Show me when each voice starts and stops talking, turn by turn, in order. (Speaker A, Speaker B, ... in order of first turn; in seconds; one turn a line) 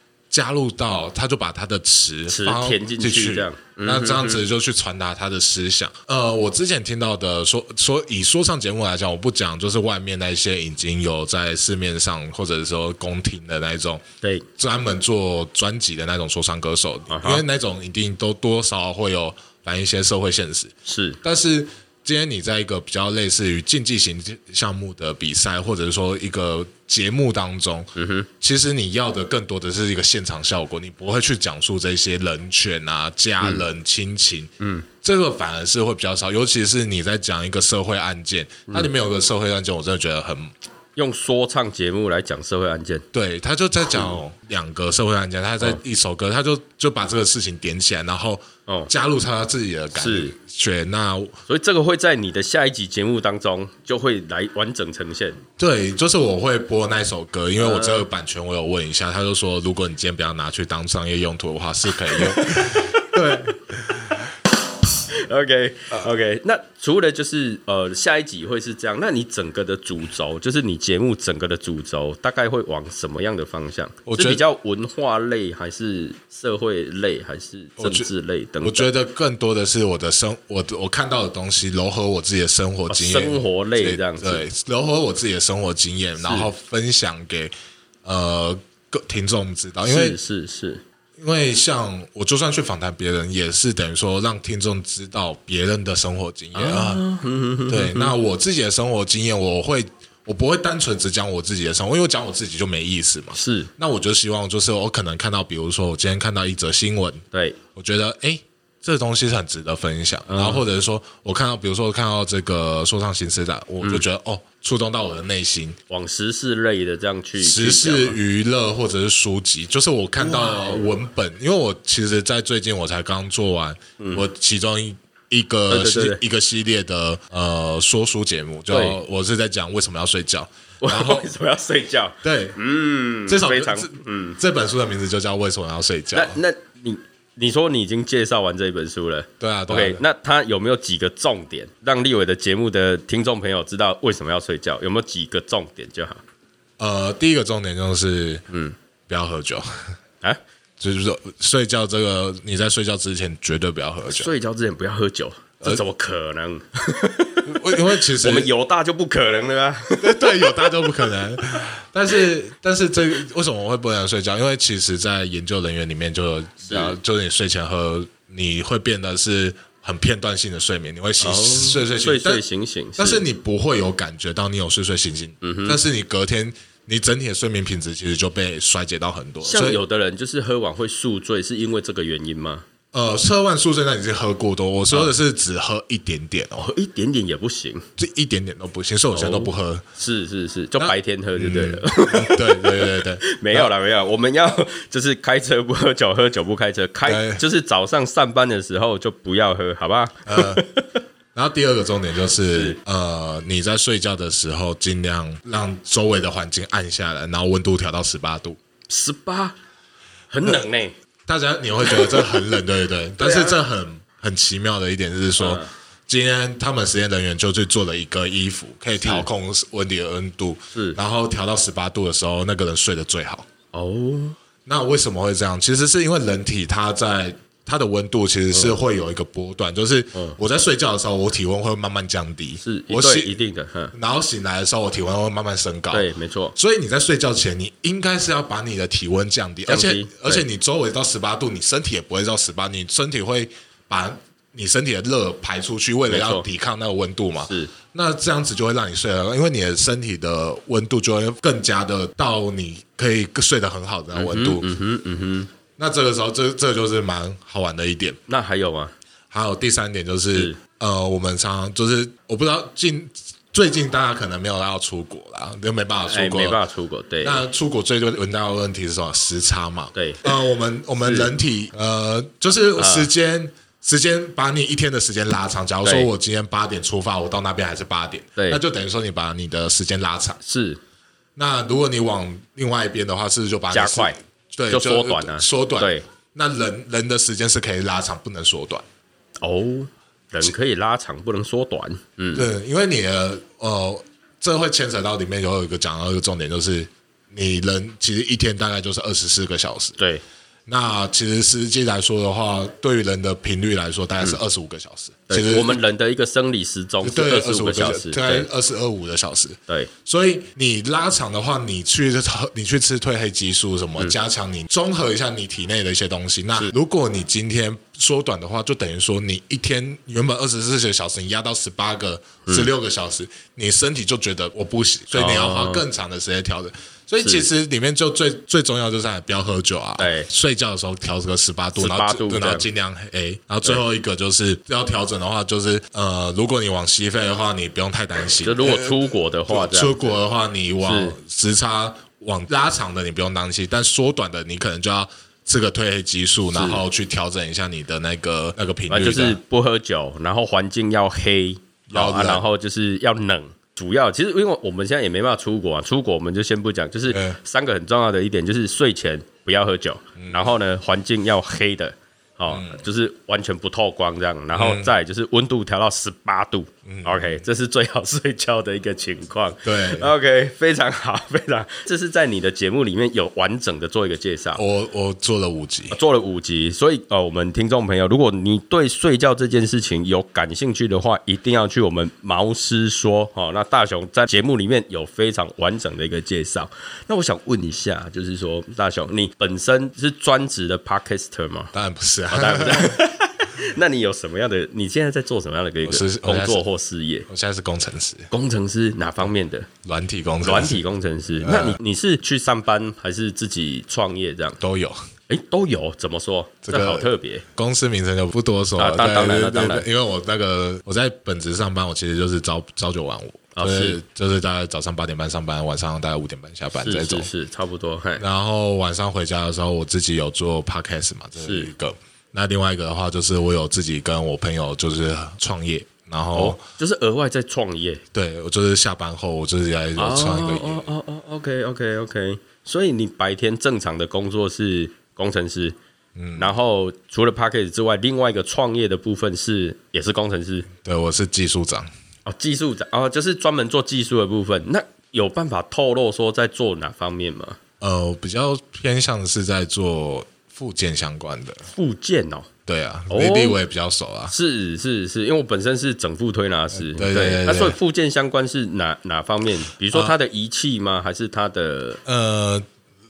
Speaker A: 0.3-14.0
Speaker B: 2.3-4.4
Speaker A: 14.6-40.5
Speaker B: 17.1-17.4
Speaker B: 20.9-21.2
Speaker B: 27.9-28.3
Speaker B: 34.6-34.9
Speaker B: 41.0-43.0
Speaker A: 43.1-51.4
Speaker B: 49.9-50.3
Speaker B: 51.5-55.4
Speaker A: 55.6-64.2
Speaker B: 57.6-58.1
Speaker B: 62.1-63.0
Speaker B: 65.1-78.9
Speaker A: 74.0-74.4
Speaker A: 77.8-78.1
Speaker A: 78.6-87.5
Speaker B: 82.9-84.4
Speaker B: 86.2-86.5
Speaker A: 88.0-90.2
Speaker B: 89.8-90.8
Speaker A: 91.2-97.0
Speaker B: 96.5-98.1
Speaker A: 97.7-107.2
Speaker B: 103.3-103.7
Speaker B: 107.3-107.6
Speaker A: 107.7-115.8
Speaker B: 110.3-110.6
Speaker B: 115.9-118.2
Speaker A: 117.4-131.3
Speaker B: 120.2-120.9
Speaker B: 124.0-124.2
Speaker B: 125.7-126.2
Speaker B: 128.7-129.0
Speaker B: 130.8-134.4
Speaker A: 132.2-132.6
Speaker A: 133.3-136.4
Speaker B: 136.1-146.2
Speaker A: 139.4-140.0
Speaker A: 146.8-148.4
Speaker B: 148.5-148.7
Speaker A: 149.1-149.9
Speaker A: 150.8-154.3
Speaker B: 154.1-161.0
Speaker A: 157.4-158.5
Speaker A: 160.0-172.4
Speaker B: 166.7-167.0
Speaker B: 171.2-173.2
Speaker A: 173.0-179.8
Speaker B: 175.4-175.8
Speaker B: 179.4-182.7
Speaker A: 182.9-186.7
Speaker B: 186.6-187.8
Speaker A: 188.0-189.8
Speaker B: 189.1-201.0
Speaker A: 190.8-193.7
Speaker A: 197.1-197.4
Speaker A: 200.2-200.6
Speaker A: 201.3-208.6
Speaker B: 202.5-202.8
Speaker B: 208.9-209.6
Speaker B: 210.3-210.9
Speaker A: 211.2-223.5
Speaker B: 211.8-212.4
Speaker B: 213.2-213.6
Speaker B: 215.4-215.7
Speaker B: 219.0-219.3
Speaker B: 220.7-221.0
Speaker B: 223.7-224.3
Speaker A: 224.7-233.4
Speaker B: 228.5-228.8
Speaker B: 232.6-233.9
Speaker A: 233.9-254.7
Speaker B: 235.9-236.6
Speaker B: 239.7-240.4
Speaker B: 246.1-246.5
Speaker B: 247.5-247.7
Speaker B: 254.1-255.5
Speaker A: 255.8-258.2
Speaker B: 258.3-258.9
Speaker A: 259.3-266.6
Speaker B: 266.1-267.4
Speaker A: 267.2-280.4
Speaker B: 269.9-270.3
Speaker B: 271.0-271.3
Speaker B: 272.8-273.1
Speaker B: 280.4-280.8
Speaker A: 281.4-288.8
Speaker B: 283.7-284.2
Speaker B: 284.7-286.0
Speaker B: 289.4-292.5
Speaker A: 292.3-300.0
Speaker B: 300.0-300.2
Speaker A: 300.7-305.8
Speaker B: 305.3-308.5
Speaker A: 307.0-349.4
Speaker B: 325.1-325.8
Speaker B: 330.0-330.3
Speaker B: 331.8-332.6
Speaker B: 338.4-340.1
Speaker B: 340.8-341.2
Speaker B: 346.5-346.8
Speaker B: 348.9-374.6
Speaker A: 351.9-352.4
Speaker A: 357.1-357.4
Speaker A: 360.2-360.5
Speaker A: 362.5-362.8
Speaker A: 364.5-364.9
Speaker A: 366.9-367.4
Speaker A: 369.6-370.1
Speaker A: 374.6-376.0
Speaker B: 375.9-391.7
Speaker A: 391.7-393.0
Speaker B: 392.3-397.3
Speaker A: 395.8-396.6
Speaker A: 397.3-398.3
Speaker B: 398.3-399.7
Speaker A: 399.8-400.8
Speaker B: 400.4-404.6
Speaker A: 401.4-401.8
Speaker A: 404.6-405.0
Speaker B: 405.3-407.4
Speaker A: 406.6-417.3
Speaker B: 408.8-409.9
Speaker B: 413.6-414.0
Speaker B: 416.8-418.2
Speaker A: 418.2-426.6
Speaker B: 421.4-421.7
Speaker B: 426.3-428.0
Speaker A: 428.1-430.9
Speaker B: 430.0-435.8
Speaker A: 436.1-436.5
Speaker B: 436.4-440.7
Speaker A: 440.8-441.9
Speaker B: 442.2-447.6
Speaker A: 447.8-451.6
Speaker B: 451.7-452.5
Speaker A: 452.7-454.3
Speaker B: 453.1-453.6
Speaker B: 454.3-462.0
Speaker A: 456.7-457.8
Speaker A: 462.1-462.6